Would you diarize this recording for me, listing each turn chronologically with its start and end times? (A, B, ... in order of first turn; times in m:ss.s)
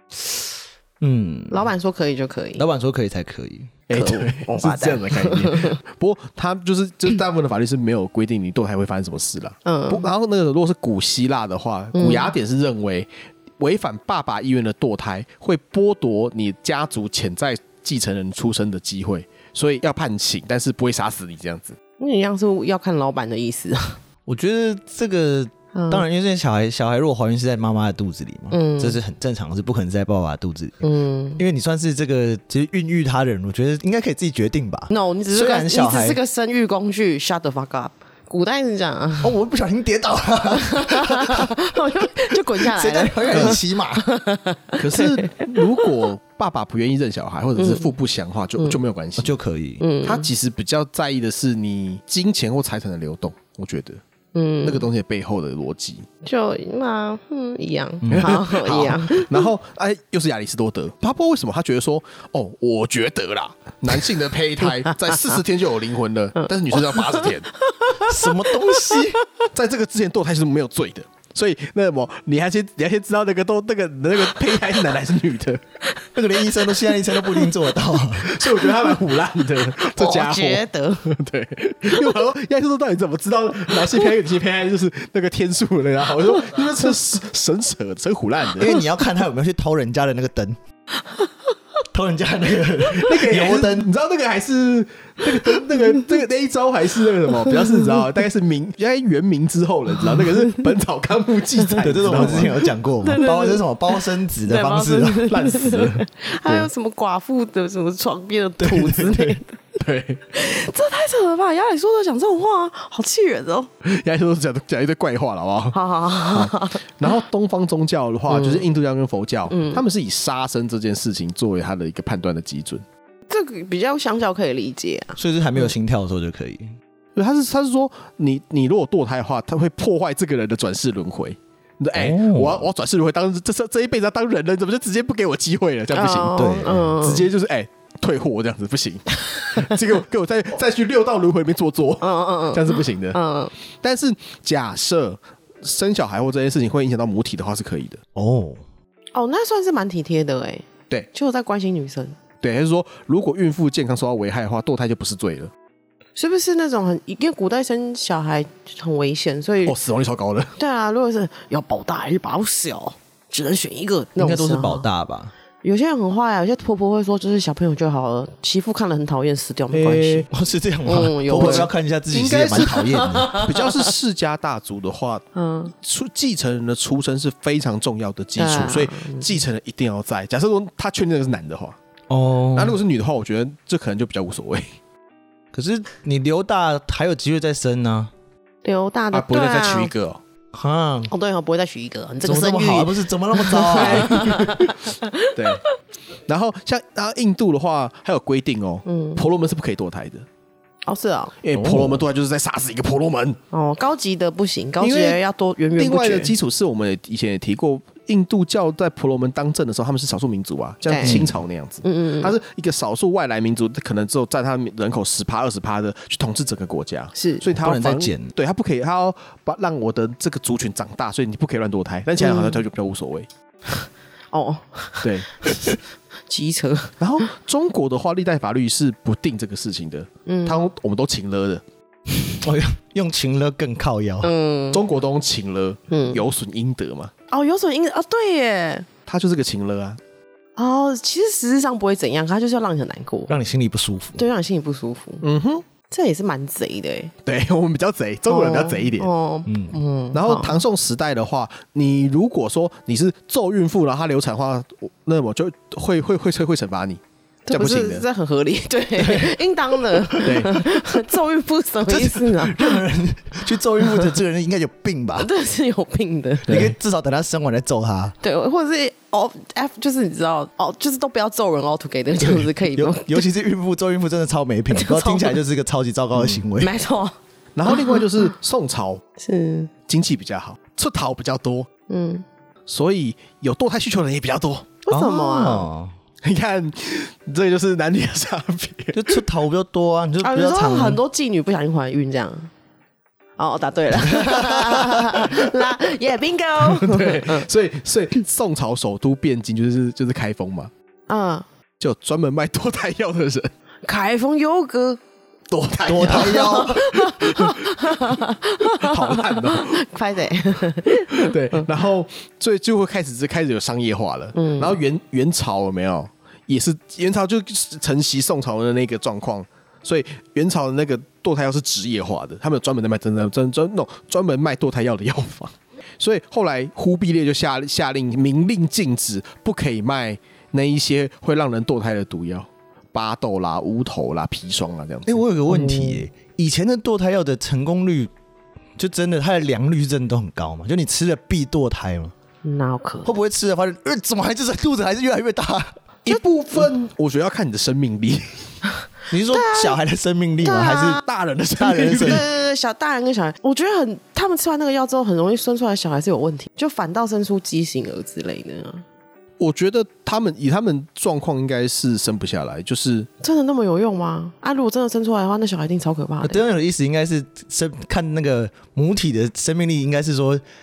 0:01.0-0:01.7 A
0:01.5-0:02.6 B
0:02.6-0:03.7 A
0:03.9-0:21.8 C
0:03.9-0:05.8 B
0:09.6-0:10.1 B
0:12.0-0:12.3 B
0:22.0-0:24.0 B
0:24.3-0:30.8 A
0:25.8-0:26.0 B
0:28.5-0:29.0 B
0:30.8-0:31.4 B
0:31.4-0:36.2 A
0:34.9-0:39.4 B
0:39.2-0:41.5 A
0:40.5-0:45.9 B
0:42.3-0:44.1 A
0:43.3-0:43.6 C
0:44.8-0:49.3 C
0:47.6-0:47.9 B
0:49.2-0:49.8 A
0:49.8-0:50.3 B
0:50.0-0:54.0 C
0:54.3-0:54.9 B
0:54.6-0:56.1 C
0:56.2-0:59.5 B
0:58.0-0:58.4 A
0:58.1-1:07.5 C
1:04.9-1:05.4 B
1:06.4-1:09.1 B
1:08.0-1:09.2 A
1:09.5-1:15.6 C
1:16.1-1:18.3 A
1:16.4-1:17.6 B
1:18.2-1:28.7 C
1:19.8-1:21.1 B
1:21.9-1:22.2 B
1:23.8-1:24.0 B
1:28.6-1:30.6 A
1:31.9-1:33.9 A
1:33.0-1:42.7 C
1:37.4-1:38.0 B
1:40.2-1:40.7 B
1:41.7-1:49.6 B
1:41.8-1:45.3 A
1:45.3-1:46.7 C
1:48.6-1:49.4 A
1:49.8-1:50.2 C
1:50.3-1:53.7 B
1:53.8-2:02.8 C
1:55.7-1:57.2 B
1:58.3-1:58.7 B
1:59.5-1:59.8 B
2:03.3-2:05.7 B
2:05.2-2:06.7 A
2:07.2-2:16.4 C
2:11.9-2:12.7 A
2:15.9-2:17.3 B
2:16.4-2:17.2 A
2:17.0-2:23.2 C
2:22.0-2:23.5 B
2:23.8-2:28.0 C
2:28.2-2:28.6 A
2:29.1-2:32.2 B
2:32.4-2:35.5 C
2:36.2-2:39.8 B
2:39.6-2:40.6 C
2:40.6-2:44.8 B
2:44.2-2:45.3 A
2:45.6-2:50.3 B
2:49.7-2:53.4 A
2:50.9-2:51.7 B
2:51.4-3:01.8 C
2:52.6-2:53.8 B
2:55.4-2:55.7 B
2:58.4-2:59.3 B
3:02.1-3:02.8 A
3:02.5-3:04.7 C
3:05.5-3:08.1 A
3:08.6-3:09.9 B
3:09.1-3:10.2 C
3:10.5-3:11.1 A
3:11.1-3:15.6 B
3:12.2-3:14.5 A
3:13.7-3:14.7 C
3:15.4-3:15.6 C
3:16.3-3:20.3 C
3:18.9-3:19.3 B
3:20.9-3:21.4 B
3:21.4-3:23.4 C
3:21.5-3:22.0 A
3:23.5-3:26.4 B
3:24.8-3:25.2 C
3:25.8-3:43.3 C
3:30.9-3:31.3 B
3:31.0-3:31.3 A
3:31.8-3:32.4 B
3:37.2-3:37.5 B
3:37.6-3:38.3 A
3:42.2-3:42.6 B
3:43.7-3:45.7 B
3:45.0-3:45.5 C
3:46.3-3:47.0 B
3:47.0-3:51.6 C
3:50.3-3:50.6 B
3:52.4-3:54.3 A
3:54.2-3:54.8 B
3:54.7-3:57.1 C
3:55.9-3:56.2 B
3:57.3-3:58.9 B
3:59.1-4:00.0 C
4:00.6-4:03.3 B
4:03.3-4:04.2 A
4:04.2-4:05.2 B
4:05.2-4:05.6 C
4:05.9-4:07.1 B
4:07.2-4:09.1 C
4:08.3-4:10.6 B
4:09.5-4:09.8 A
4:10.1-4:18.0 C
4:17.5-4:22.8 B
4:20.0-4:20.6 A
4:20.2-4:20.6 C
4:21.9-4:25.3 A
4:23.8-4:24.2 B
4:25.2-4:26.7 B
4:26.5-4:28.2 A
4:26.5-4:26.8 C
4:28.2-4:33.3 B
4:32.4-4:36.7 A
4:34.7-4:35.4 B
4:36.2-4:36.4 C
4:36.6-4:37.1 B
4:37.6-4:39.0 C
4:37.7-4:38.1 B
4:39.2-4:39.7 B
4:39.9-4:41.7 C
4:41.9-4:42.2 B
4:42.7-4:44.8 C
4:44.8-4:45.7 B
4:44.9-4:45.9 A
4:46.2-4:49.2 C
4:48.9-4:51.0 A
4:50.2-4:52.5 B
4:53.4-4:57.5 B
4:54.1-4:55.0 A
4:55.2-4:55.8 C
4:56.6-5:00.7 C
5:01.1-5:01.5 B
5:01.8-5:03.5 C
5:03.8-5:05.0 B
5:05.5-5:09.8 C
5:05.9-5:06.9 A
5:06.0-5:11.6 B
5:10.9-5:35.2 C
5:14.4-5:14.8 B
5:35.1-5:38.1 A
5:35.5-5:36.0 B
5:38.8-5:42.1 A
5:42.4-5:43.1 B
5:43.0-5:45.7 A
5:46.0-5:48.6 C
5:49.1-5:51.0 A
5:49.3-5:49.8 B
5:50.4-5:51.0 B
5:51.0-5:52.3 C
5:51.6-5:52.2 A
5:52.0-5:58.8 B
5:59.4-6:03.1 C
6:03.2-6:06.4 B
6:06.2-6:10.4 A